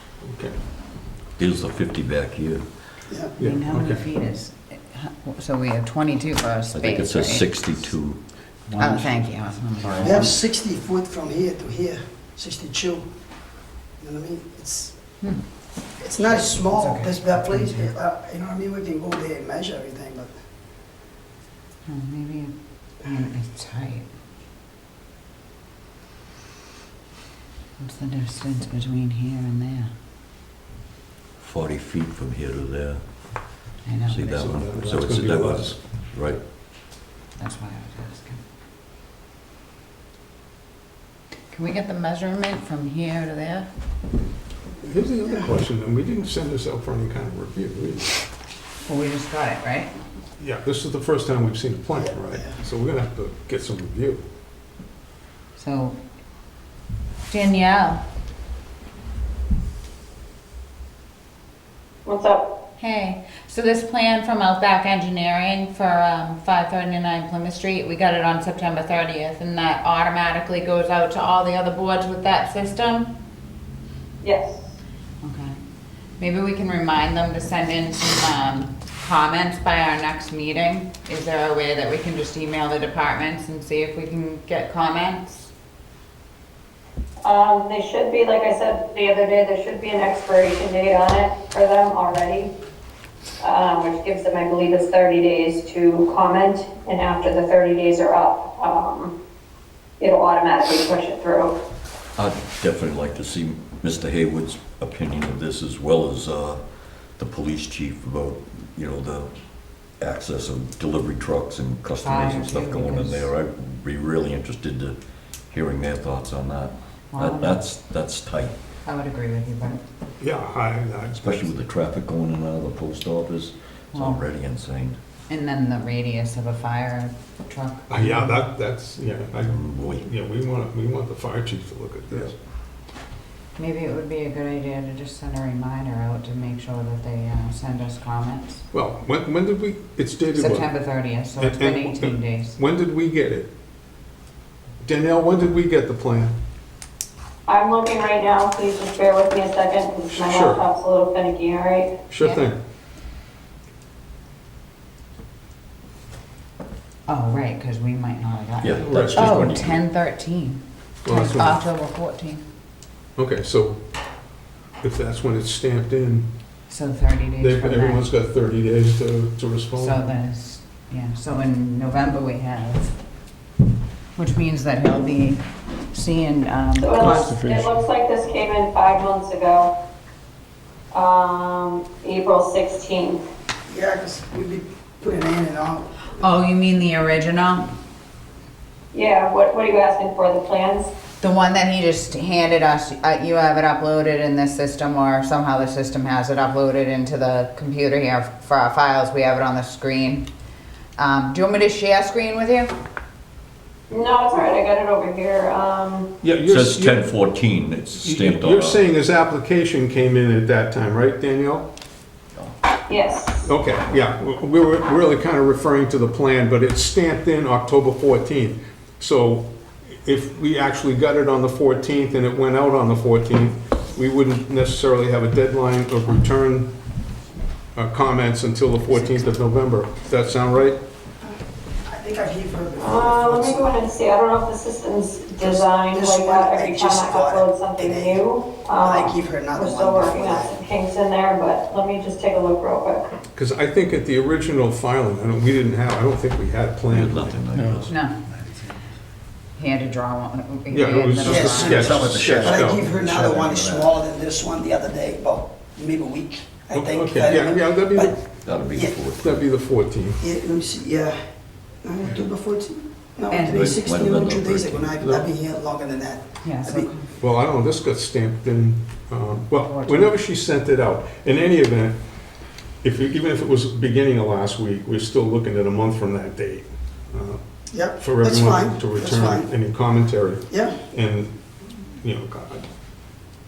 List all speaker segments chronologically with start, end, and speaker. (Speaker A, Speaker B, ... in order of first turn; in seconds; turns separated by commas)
Speaker A: 0.2-0.6, Speaker B: 1.4-2.6, Speaker A: 3.4-4.0, Speaker C: 3.4-7.5, Speaker B: 6.7-8.2, Speaker C: 8.7-10.4, Speaker B: 9.8-10.2, Speaker D: 10.0-13.1, Speaker D: 14.0-14.9, Speaker D: 16.0-20.3, Speaker C: 16.4-17.9, Speaker C: 21.9-24.1, Speaker C: 27.8-29.9, Speaker B: 31.4-33.0, Speaker C: 33.8-34.9, Speaker B: 34.1-36.4, Speaker A: 34.4-35.8, Speaker C: 37.4-38.4, Speaker C: 41.5-43.7, Speaker A: 44.8-48.2, Speaker D: 45.2-45.5, Speaker C: 48.9-49.9, Speaker A: 50.4-54.2, Speaker D: 51.9-52.5, Speaker C: 55.5-56.0, Speaker C: 57.3-58.0, Speaker E: 62.0-62.5, Speaker C: 62.8-73.1, Speaker E: 74.2-74.8, Speaker C: 75.2-75.5, Speaker C: 76.2-85.5, Speaker E: 87.2-92.5, Speaker E: 93.4-99.1, Speaker E: 100.0-101.5, Speaker B: 102.2-106.6, Speaker B: 107.2-109.3, Speaker B: 110.0-115.0, Speaker C: 112.0-113.3, Speaker B: 115.5-118.5, Speaker C: 117.1-117.7, Speaker C: 118.8-119.8, Speaker A: 120.2-121.6, Speaker B: 121.2-125.0, Speaker C: 123.9-124.2, Speaker C: 125.3-128.5, Speaker A: 127.9-132.3, Speaker B: 129.4-130.0, Speaker C: 133.6-138.6, Speaker A: 138.7-140.7, Speaker C: 140.3-142.6, Speaker A: 141.3-143.5, Speaker A: 144.8-146.3, Speaker E: 147.5-152.0, Speaker A: 150.1-150.6, Speaker A: 152.1-152.6, Speaker C: 157.1-162.4, Speaker B: 158.6-159.8, Speaker A: 158.8-159.5, Speaker A: 161.0-161.6, Speaker A: 163.2-163.8, Speaker A: 164.8-166.3, Speaker C: 166.7-168.1, Speaker A: 167.4-170.1, Speaker C: 169.7-172.9, Speaker C: 174.2-175.4, Speaker C: 175.9-177.4, Speaker E: 176.8-179.7, Speaker A: 177.0-177.7, Speaker E: 180.9-183.2, Speaker D: 183.7-185.9, Speaker C: 186.2-187.7, Speaker E: 188.9-190.9, Speaker C: 191.2-200.2, Speaker C: 201.0-202.7, Speaker E: 203.9-206.1, Speaker A: 206.2-207.1, Speaker B: 206.3-208.8, Speaker A: 208.0-211.7, Speaker E: 212.9-213.4, Speaker A: 213.4-219.5, Speaker A: 220.0-226.7, Speaker A: 227.7-230.8, Speaker D: 231.8-233.8, Speaker E: 232.8-243.1, Speaker D: 235.4-238.2, Speaker D: 238.8-240.6, Speaker A: 243.3-248.0, Speaker B: 246.9-248.0, Speaker C: 247.9-248.2, Speaker C: 249.6-252.1, Speaker A: 250.7-252.8, Speaker B: 251.2-254.0, Speaker D: 251.2-258.1, Speaker A: 256.7-258.2, Speaker B: 258.4-259.4, Speaker A: 259.2-260.2, Speaker D: 260.2-261.2, Speaker D: 261.8-266.9, Speaker C: 263.3-263.7, Speaker B: 263.5-264.9, Speaker A: 265.0-265.3, Speaker C: 266.4-267.1, Speaker A: 267.2-272.0, Speaker C: 269.6-270.1, Speaker A: 272.8-277.4, Speaker D: 277.7-279.5, Speaker A: 278.0-281.4, Speaker D: 280.5-280.8, Speaker A: 282.0-282.7